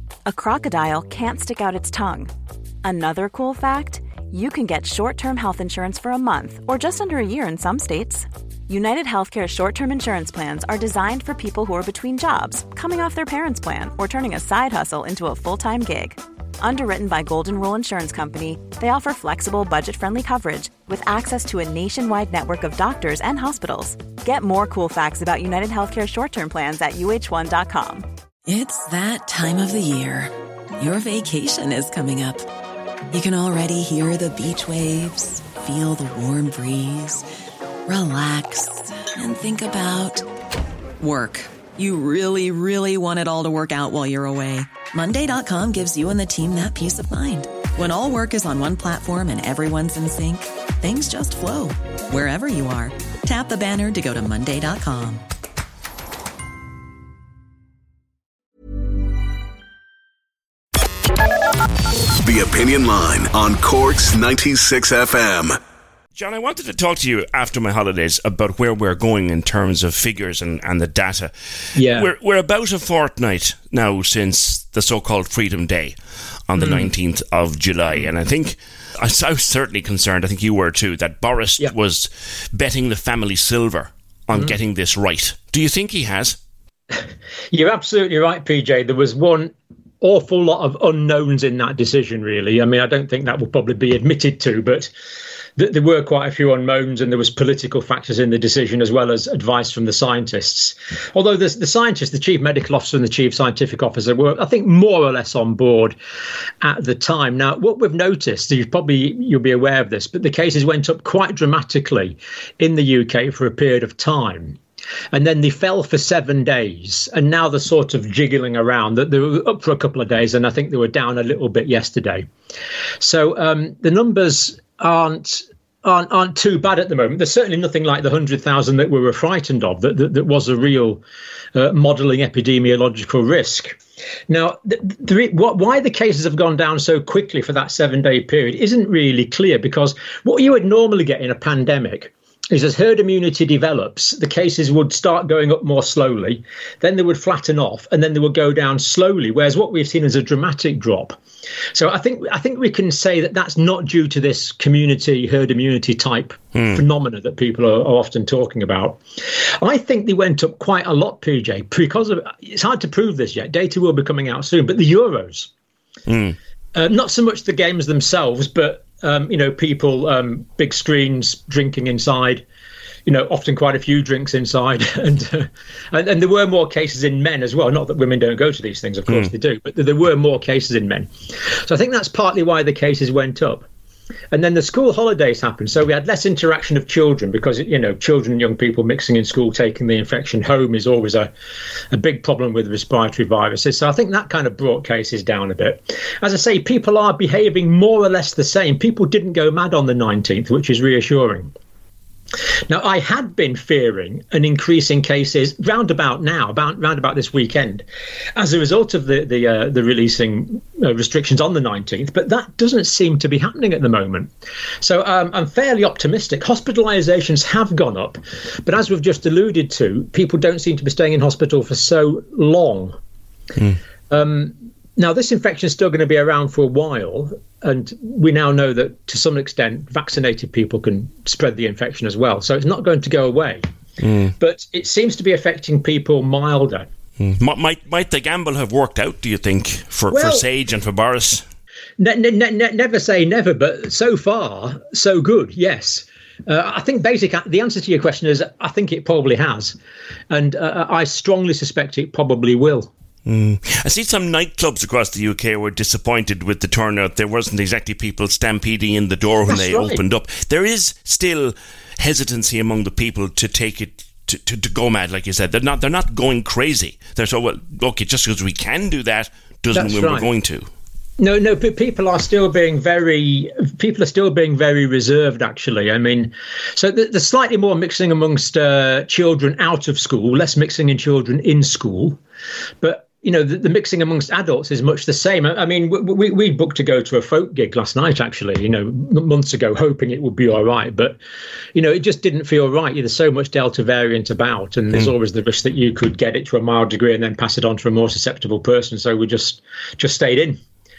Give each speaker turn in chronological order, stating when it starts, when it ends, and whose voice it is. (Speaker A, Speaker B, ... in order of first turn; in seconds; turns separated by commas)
Speaker A: 0.3-2.3, Speaker A: 2.8-28.1, Speaker B: 28.5-32.5, Speaker B: 33.1-37.2, Speaker B: 37.9-40.3, Speaker B: 41.0-55.2, Speaker C: 62.2-65.6, Speaker D: 66.2-71.3, Speaker E: 71.8-72.1, Speaker D: 71.9-76.0, Speaker D: 76.5-86.4, Speaker E: 76.6-76.9, Speaker E: 86.9-94.9, Speaker E: 95.6-106.0, Speaker E: 106.6-114.6, Speaker E: 115.1-122.3, Speaker E: 123.0-131.0, Speaker E: 131.6-133.8, Speaker E: 134.3-151.2, Speaker E: 151.7-159.0, Speaker D: 156.6-156.8, Speaker E: 159.6-165.5, Speaker D: 166.1-166.4, Speaker E: 166.8-172.4, Speaker E: 173.1-183.7, Speaker E: 184.3-191.3, Speaker E: 191.9-201.5, Speaker E: 202.7-207.8, Speaker E: 208.4-223.0, Speaker E: 224.1-233.7, Speaker D: 234.0-234.3, Speaker E: 234.4-236.9, Speaker D: 237.2-241.4, Speaker E: 240.1-240.5, Speaker E: 242.0-249.8, Speaker E: 250.3-252.9, Speaker D: 253.3-270.7, Speaker E: 259.5-260.0, Speaker E: 269.7-270.3, Speaker E: 271.2-282.2, Speaker E: 282.8-291.2, Speaker E: 291.8-300.6